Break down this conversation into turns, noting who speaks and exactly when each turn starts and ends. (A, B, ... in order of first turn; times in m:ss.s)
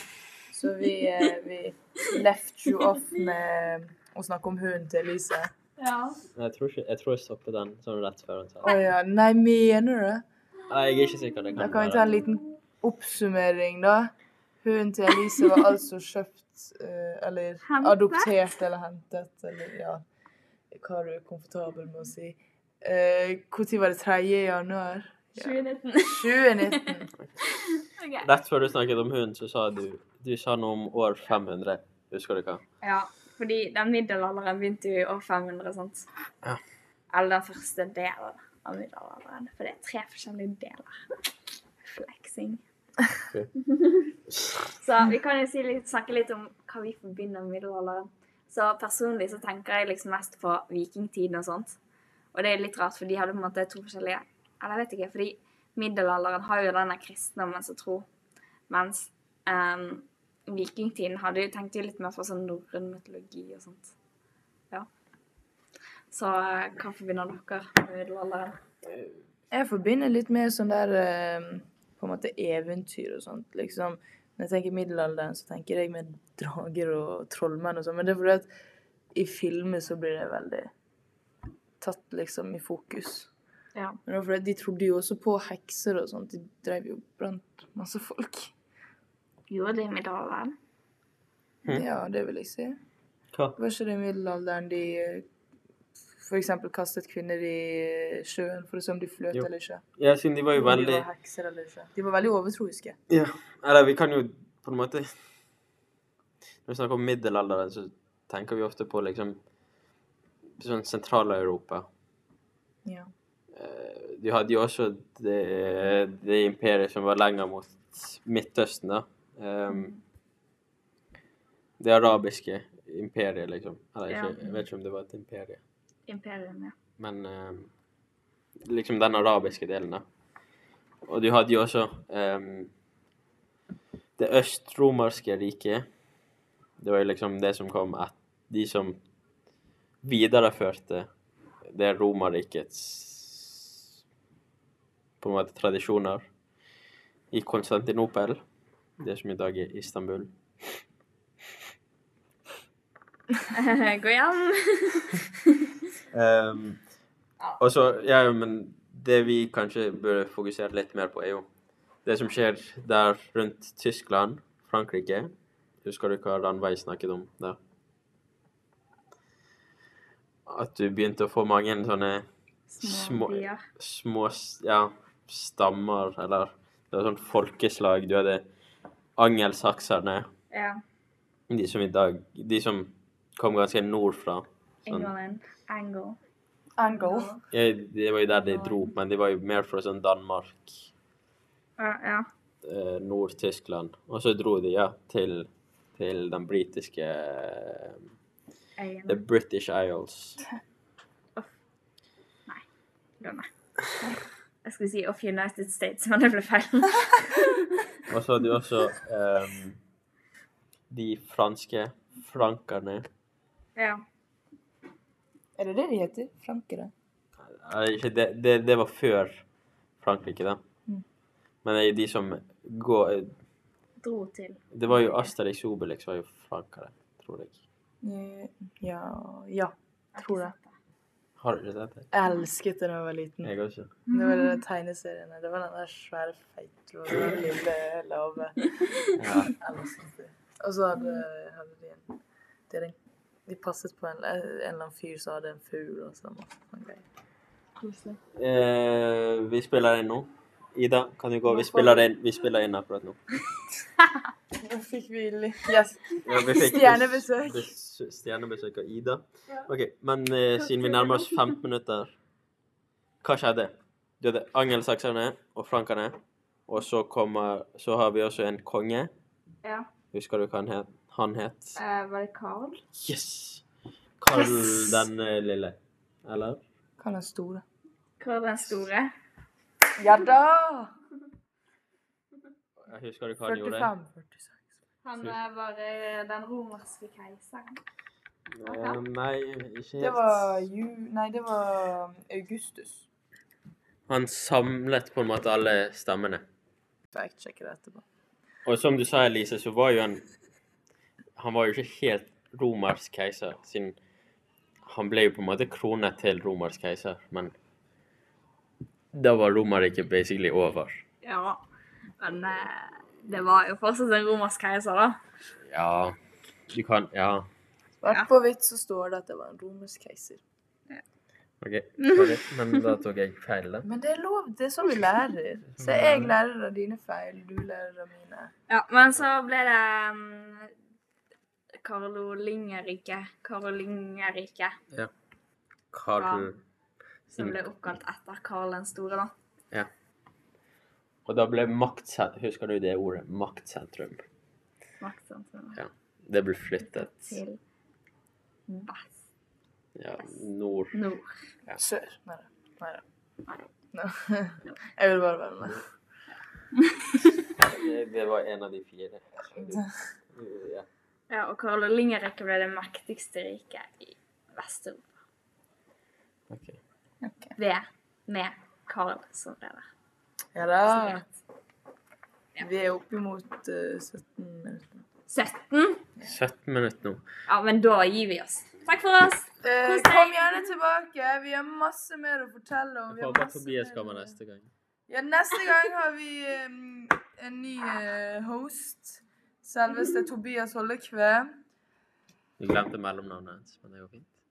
0:00.5-0:05.5 A
0:05.8-0:06.2 B
0:06.3-0:08.7 C
0:08.6-0:10.2 A
0:10.7-0:12.1 C
0:11.6-0:14.1 A
0:14.6-0:20.0 A
0:17.6-0:18.4 B
0:20.7-0:27.1 A
0:25.4-0:28.3 B
0:28.2-0:32.6 C
0:32.8-0:36.1 B
0:37.1-0:41.0 B
0:41.8-0:42.6 B
0:43.6-0:44.1 B
0:44.8-0:51.8 B
0:52.3-0:58.1 B
0:58.7-1:03.9 B
1:06.1-1:08.6 B
1:09.5-1:18.5 A
1:19.1-1:20.7 A
1:21.8-1:23.3 A
1:24.0-1:28.5 A
1:29.5-1:30.6 B
1:31.7-1:32.8 A
1:33.6-1:35.2 A
1:36.2-1:39.8 A
1:39.3-1:41.1 C
1:40.5-1:43.0 A
1:43.1-1:45.1 C
1:46.6-1:49.4 C
1:50.6-1:51.9 C
1:53.5-1:59.9 C
1:59.7-2:00.0 B
2:01.8-2:05.6 C
2:04.1-2:04.6 B
2:06.1-2:06.7 B
2:07.0-2:07.7 C
2:08.6-2:10.0 C
2:11.0-2:12.7 C
2:14.2-2:15.9 C
2:16.8-2:19.0 C
2:20.0-2:21.1 C
2:21.6-2:23.8 C
2:25.2-2:26.3 C
2:27.3-2:28.4 C
2:29.0-2:30.8 C
2:33.5-2:35.8 B
2:36.1-2:36.8 C
2:37.6-2:41.5 C
2:42.0-2:47.6 C
2:50.4-2:52.3 C
2:52.7-2:53.6 B
2:52.8-2:58.4 C
2:59.2-3:00.3 C
3:00.5-3:00.8 B
3:01.5-3:05.1 C
3:04.8-3:06.2 B
3:06.8-3:07.3 A
3:06.9-3:07.4 B
3:07.5-3:10.9 C
3:08.3-3:08.9 B
3:11.8-3:12.3 B
3:12.6-3:18.1 C
3:18.8-3:19.2 B
3:19.1-3:20.4 C
3:23.2-3:23.5 B
3:24.0-3:27.8 B
3:28.1-3:29.8 C
3:30.9-3:33.1 C
3:33.8-3:34.0 B
3:35.6-3:36.9 A
3:37.4-3:39.4 C
3:40.0-3:40.6 C
3:41.6-3:43.4 C
3:44.0-3:44.6 B
3:44.7-3:47.6 C
3:48.0-3:50.5 A
3:50.1-3:50.7 B
3:51.4-3:52.1 C
3:52.1-3:53.5 A
3:53.4-3:54.0 C
3:54.1-3:54.6 B
3:54.1-3:58.8 A
3:59.2-3:59.5 C
3:59.6-4:02.1 A
4:02.7-4:02.9 A
4:03.5-4:07.0 A
4:07.8-4:08.2 B
4:08.3-4:13.2 C
4:11.5-4:11.9 A
4:14.6-4:17.7 A
4:16.2-4:22.1 C
4:20.6-4:21.5 B
4:23.2-4:29.1 C
4:30.1-4:31.8 C
4:31.8-4:32.8 B
4:32.9-4:33.6 C
4:34.2-4:36.6 C
4:34.4-4:35.0 B
4:37.0-4:37.6 A
4:38.2-4:39.1 B
4:40.0-4:40.9 A
4:42.8-4:43.9 C
4:43.4-4:44.6 A
4:45.0-4:47.8 B
4:48.5-4:50.6 C
4:48.6-4:49.0 B
4:50.0-4:53.0 A
4:54.1-4:56.4 C
4:57.1-4:58.0 A
4:58.6-5:00.2 C
5:01.4-5:04.0 C
5:04.8-5:07.5 C
5:09.1-5:11.0 C
5:11.2-5:11.6 B
5:12.2-5:15.2 B
5:15.7-5:16.2 C
5:16.7-5:17.5 C
5:18.0-5:20.4 A
5:21.6-5:23.9 C
5:22.0-5:22.8 B
5:23.8-5:28.5 A
5:25.7-5:26.3 C
5:28.7-5:30.7 B
5:31.8-5:34.7 B
5:35.9-5:36.6 C
5:36.2-5:36.5 B
5:37.3-5:37.6 C
5:37.3-5:39.3 B
5:41.2-5:44.2 C
5:45.0-5:45.8 B
5:45.8-5:47.3 C
5:46.8-5:47.6 B
5:48.7-5:49.2 B
5:49.9-5:51.0 C
5:50.9-5:51.4 B
5:51.8-5:53.0 A
5:53.9-5:55.8 A
5:56.7-5:57.3 B
5:57.6-6:00.9 C
6:01.3-6:05.1 B
6:06.5-6:06.8 C
6:07.2-6:07.5 A
6:07.6-6:09.8 B
6:10.5-6:11.2 A
6:12.6-6:15.0 A
6:15.3-6:16.0 B
6:16.3-6:17.2 C
6:17.5-6:20.6 B
6:19.6-6:24.4 A
6:23.1-6:24.7 C
6:25.1-6:31.6 A
6:32.6-6:34.3 C